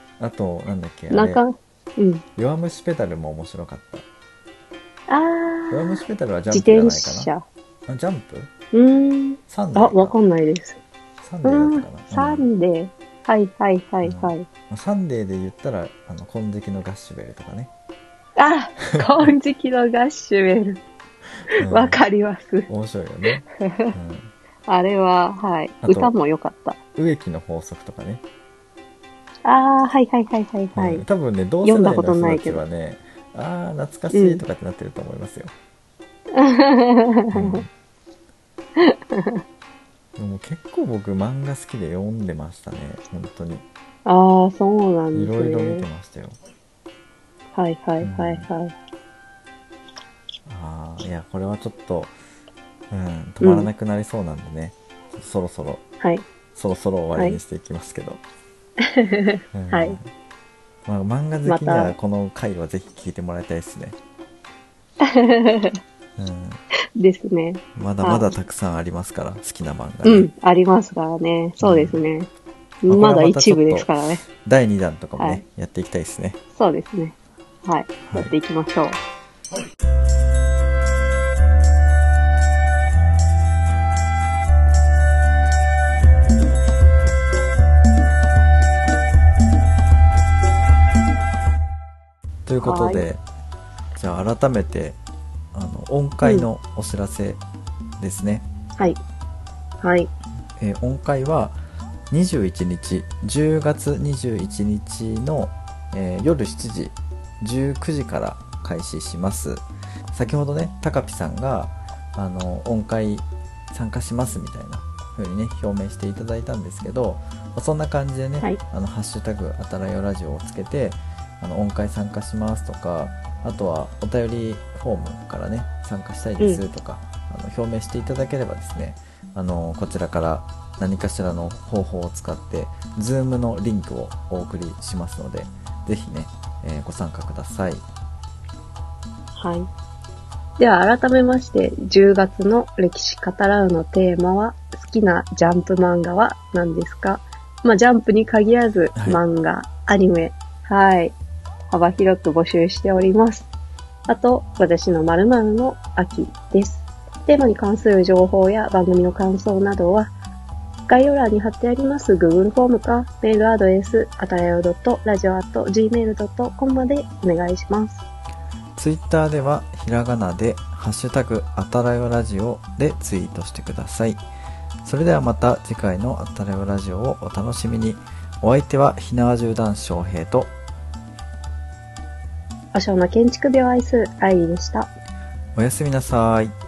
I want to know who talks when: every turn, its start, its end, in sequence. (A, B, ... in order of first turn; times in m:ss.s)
0:00.2-0:01.4 A
0:01.1-0:02.2 B
0:02.4-0:04.0 A
0:05.1-0:07.4 B
0:05.7-0:07.3 A
0:07.9-0:08.5 A
0:08.7-0:10.8 B
0:09.5-0:10.2 A
0:11.2-0:12.5 A
0:11.4-0:14.5 B
0:14.0-0:17.7 A
0:18.4-0:20.8 B
0:18.9-0:19.3 A
0:21.6-0:22.0 A
0:21.6-0:22.7 B
0:22.7-0:24.3 A
0:23.6-0:23.9 B
0:24.7-0:26.8 B
0:25.8-0:26.1 A
0:27.0-0:28.2 A
0:29.4-0:31.0 B
0:30.7-0:35.5 A
0:31.6-0:32.6 B
0:34.1-0:34.4 B
0:36.3-0:37.6 B
0:37.3-0:37.7 A
0:38.8-0:39.4 B
0:40.2-0:43.6 A
0:44.0-0:45.8 B
0:45.1-0:46.4 A
0:47.5-0:48.7 B
0:48.0-0:48.5 A
0:50.4-0:52.1 A
0:52.9-0:55.8 A
0:53.4-0:53.7 B
0:56.0-0:56.2 B
0:56.5-0:58.2 A
0:58.8-1:00.0 B
0:59.5-1:00.1 A
1:00.8-1:04.0 A
1:01.4-1:02.0 B
1:05.0-1:05.8 B
1:06.2-1:06.6 A
1:07.0-1:08.3 B
1:07.8-1:10.3 A
1:10.0-1:12.3 B
1:11.6-1:12.0 A
1:12.8-1:14.2 B
1:12.9-1:16.4 A
1:15.2-1:15.4 B
1:16.5-1:19.0 B
1:18.0-1:18.3 A
1:32.4-1:33.2 A
1:32.6-1:33.0 B
1:33.9-1:35.0 A
1:35.5-1:37.4 A
1:36.2-1:36.5 B
1:38.0-1:38.5 A
1:39.8-1:40.1 B
1:40.6-1:41.6 A
1:42.1-2:17.8 A
2:19.3-2:19.7 B
2:20.6-2:31.2 B
2:31.7-2:33.5 B
2:34.1-2:40.1 B
2:40.9-2:48.0 B
2:48.8-2:54.2 A
2:54.8-3:00.5 A
3:02.7-3:04.9 B
3:05.5-3:06.5 A